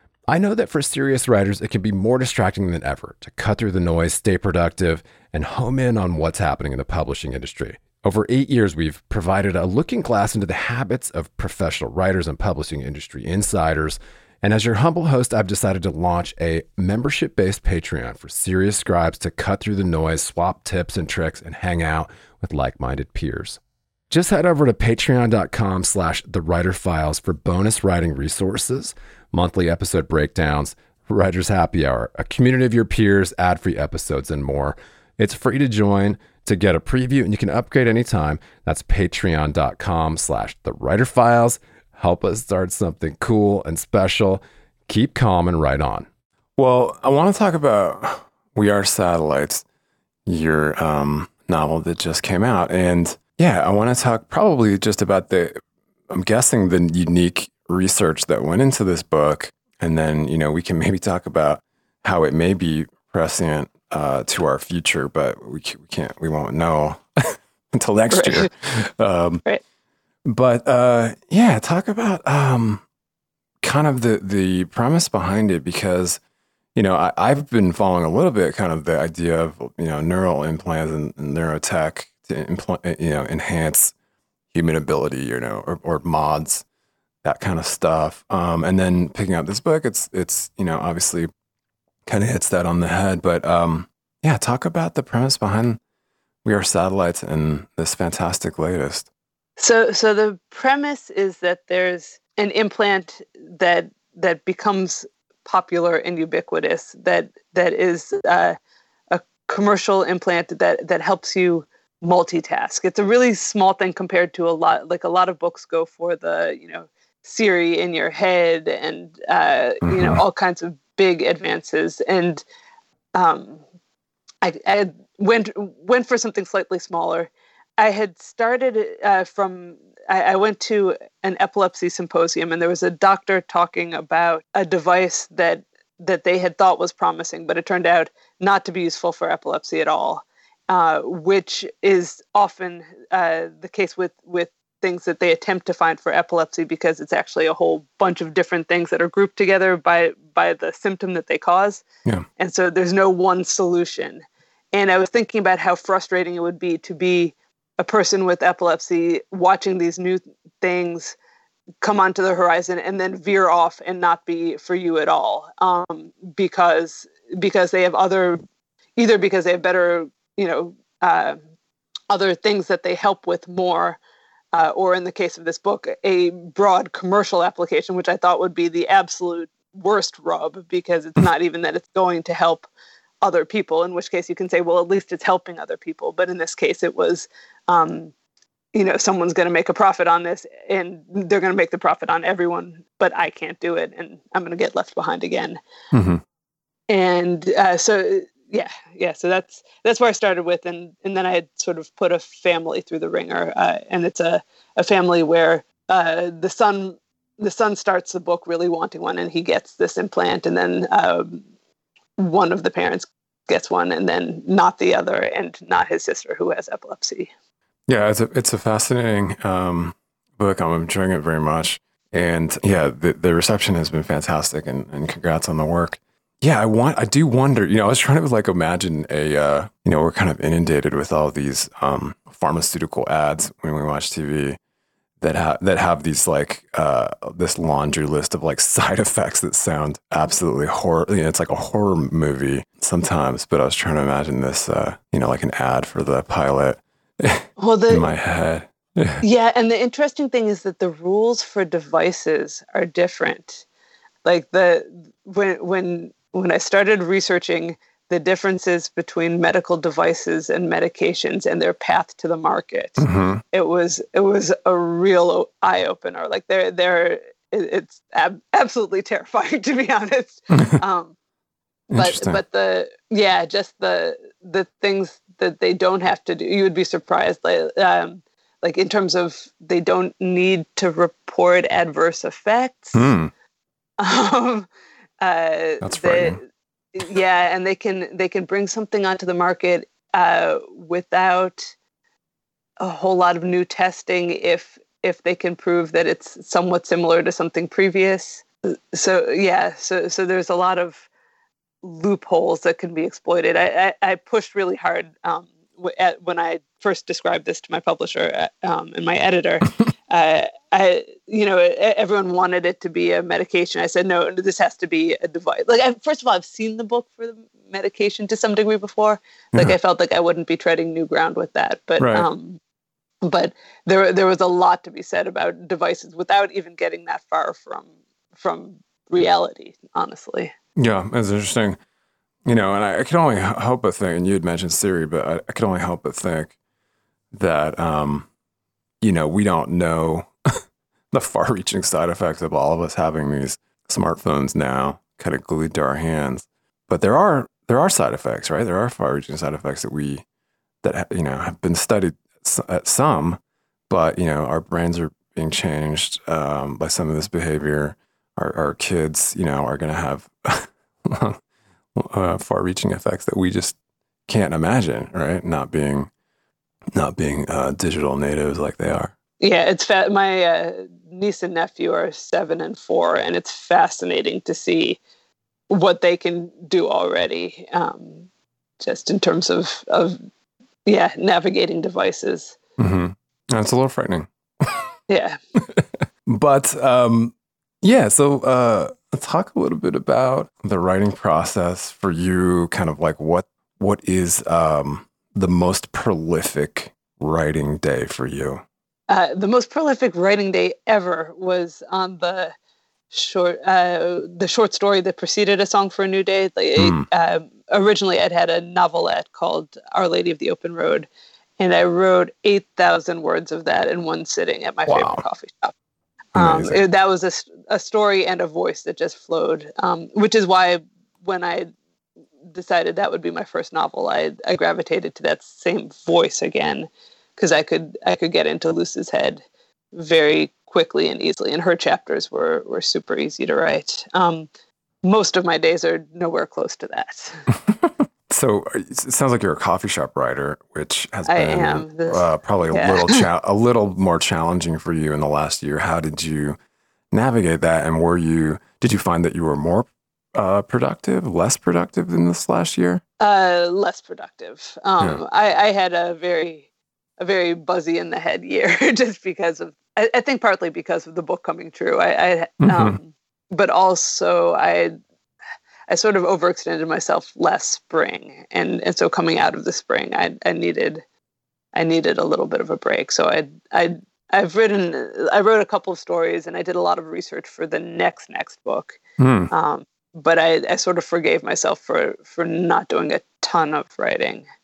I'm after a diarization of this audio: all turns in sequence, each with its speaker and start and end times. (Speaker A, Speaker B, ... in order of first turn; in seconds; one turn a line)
Speaker A: 0.3-49.6
Speaker A: 50.2-69.4
Speaker B: 68.1-68.5
Speaker A: 70.2-72.8
Speaker A: 73.6-76.2
Speaker A: 76.7-83.9
Speaker A: 84.5-86.6
Speaker A: 87.2-91.3
Speaker A: 92.0-95.8
Speaker A: 96.4-99.1
Speaker B: 99.6-108.6
Speaker B: 109.1-122.4
Speaker A: 119.8-120.2
Speaker B: 123.1-123.6
Speaker B: 124.4-151.8
Speaker B: 152.4-161.2
Speaker B: 161.8-168.4
Speaker B: 168.9-171.4
Speaker B: 172.1-174.0
Speaker B: 174.5-182.7
Speaker B: 183.2-188.1
Speaker B: 188.7-195.6
Speaker A: 195.9-196.2
Speaker B: 196.9-211.4
Speaker B: 212.2-217.3
Speaker A: 217.9-234.6
Speaker A: 235.2-249.2
Speaker B: 247.6-248.1
Speaker B: 249.2-253.7
Speaker B: 254.2-271.1
Speaker A: 263.0-263.4
Speaker A: 270.5-270.8
Speaker A: 271.9-272.4
Speaker B: 271.9-283.1
Speaker A: 282.9-283.3
Speaker B: 284.0-284.7
Speaker B: 285.2-286.4
Speaker A: 285.8-286.4
Speaker B: 286.9-291.7
Speaker B: 292.8-301.1
Speaker B: 301.8-322.6
Speaker A: 322.0-322.3
Speaker B: 323.2-330.5
Speaker A: 330.8-331.8
Speaker A: 332.4-336.5
Speaker A: 337.3-338.3
Speaker A: 339.0-340.3
Speaker A: 341.1-350.2
Speaker A: 350.8-361.4
Speaker A: 361.9-366.1
Speaker A: 366.9-369.1
Speaker B: 369.4-375.0
Speaker B: 375.7-378.3
Speaker B: 378.8-380.2
Speaker B: 380.9-382.6
Speaker A: 382.8-384.9
Speaker B: 385.1-385.4
Speaker A: 385.6-398.6
Speaker B: 399.1-402.5
Speaker B: 403.1-411.1
Speaker A: 406.8-407.1
Speaker B: 411.6-415.7
Speaker A: 414.9-415.2
Speaker A: 416.4-416.8
Speaker B: 416.4-421.7
Speaker B: 422.4-434.5
Speaker B: 435.0-437.4
Speaker A: 437.6-446.6
Speaker B: 441.2-443.2
Speaker A: 447.1-453.0
Speaker B: 453.2-456.7
Speaker B: 457.2-464.9
Speaker A: 462.6-463.0
Speaker B: 465.9-471.0
Speaker B: 471.7-479.0
Speaker A: 479.2-479.5
Speaker B: 479.5-484.4